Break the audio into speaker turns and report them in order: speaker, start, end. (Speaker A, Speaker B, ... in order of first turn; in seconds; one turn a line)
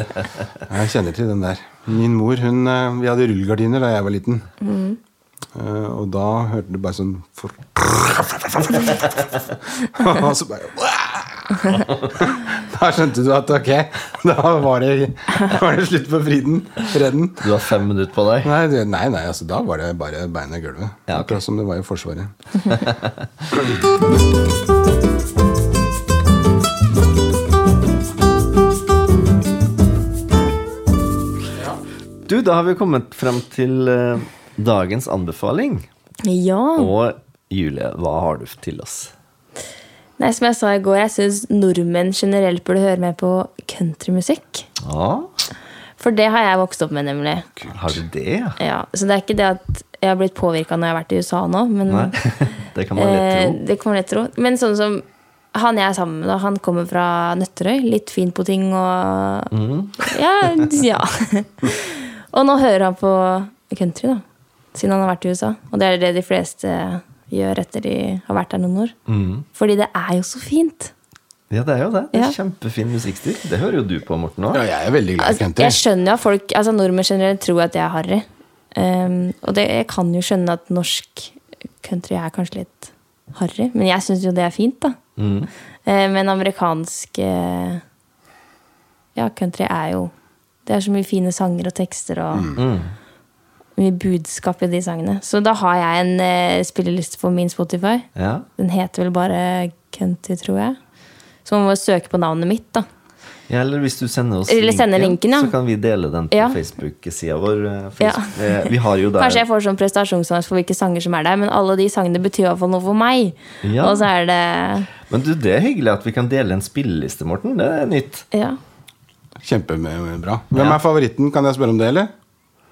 Speaker A: 0.7-4.5
Speaker B: 4.6-5.0
Speaker A: 5.5-17.5
Speaker C: 11.7-12.2
Speaker C: 17.4-18.5
Speaker A: 18.4-22.3
Speaker C: 21.1-21.4
Speaker C: 22.6-23.5
Speaker C: 32.3-35.9
Speaker B: 36.2-36.9
Speaker C: 36.8-39.1
Speaker B: 40.2-44.7
Speaker C: 44.8-45.3
Speaker B: 46.0-47.5
Speaker A: 47.6-48.0
Speaker C: 47.7-48.6
Speaker B: 48.6-52.1
Speaker C: 51.9-53.6
Speaker B: 53.0-64.2
Speaker C: 59.5-60.7
Speaker B: 64.7-68.9
Speaker C: 69.1-69.5
Speaker B: 69.5-70.9
Speaker C: 71.5-74.6
Speaker A: 74.5-75.8
Speaker B: 75.2-85.0
Speaker C: 85.2-85.5
Speaker B: 85.8-87.8
Speaker B: 89.1-90.1
Speaker B: 90.7-92.5
Speaker A: 92.3-92.6
Speaker C: 92.5-92.9
Speaker B: 93.8-100.8
Speaker C: 98.2-98.5
Speaker B: 101.4-102.8
Speaker C: 103.5-109.4
Speaker B: 104.5-105.5
Speaker B: 106.3-106.6
Speaker B: 108.0-114.9
Speaker C: 113.6-114.1
Speaker C: 115.0-118.2
Speaker B: 118.3-118.6
Speaker A: 119.4-122.1
Speaker C: 120.5-120.8